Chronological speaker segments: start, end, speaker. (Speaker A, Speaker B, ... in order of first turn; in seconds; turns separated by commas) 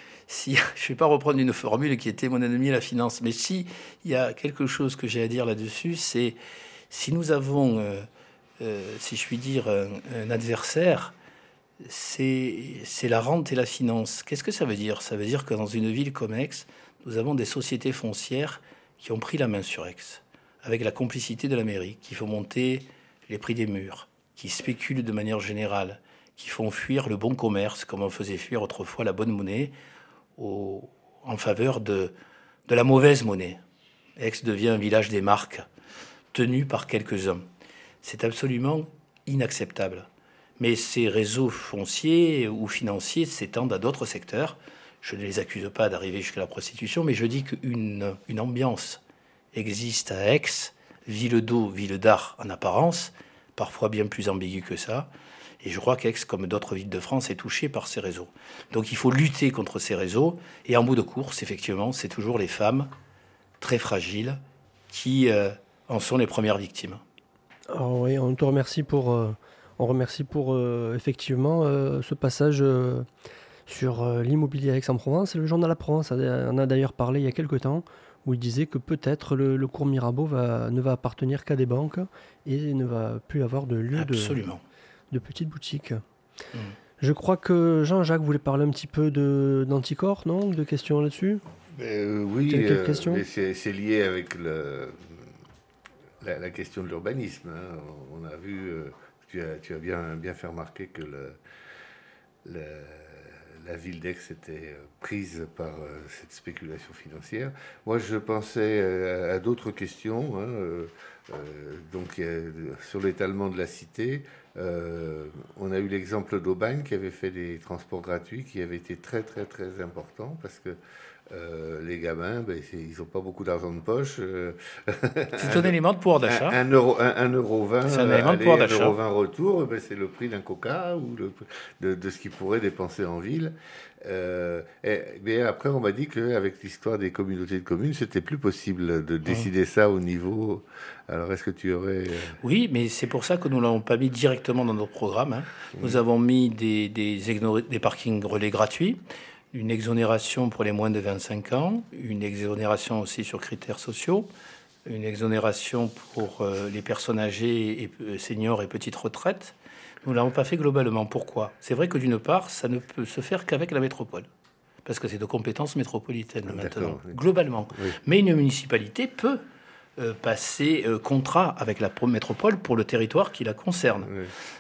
Speaker A: 0.3-6.4, Speaker A: 6.9-8.1, Speaker A: 8.6-11.1, Speaker A: 11.8-29.7, Speaker A: 30.4-32.1, Speaker A: 32.7-33.6, Speaker A: 34.2-35.7, Speaker A: 36.3-37.4, Speaker A: 38.0-49.0, Speaker A: 49.5-62.9, Speaker A: 63.6-67.0, Speaker B: 67.7-73.1, Speaker B: 73.7-84.4, Speaker A: 83.9-84.6, Speaker B: 85.1-86.0, Speaker B: 87.0-91.4, Speaker C: 91.7-95.3, Speaker B: 92.5-93.2, Speaker C: 96.2-101.4, Speaker C: 102.4-120.8, Speaker C: 121.3-125.7, Speaker A: 125.4-126.6, Speaker C: 126.3-142.4, Speaker A: 127.9-129.0, Speaker A: 142.4-149.0, Speaker A: 149.5-154.3, Speaker A: 154.8-164.3, Speaker A: 164.8-169.4, Speaker C: 166.5-167.2, Speaker A: 170.0-174.1, Speaker C: 174.1-174.3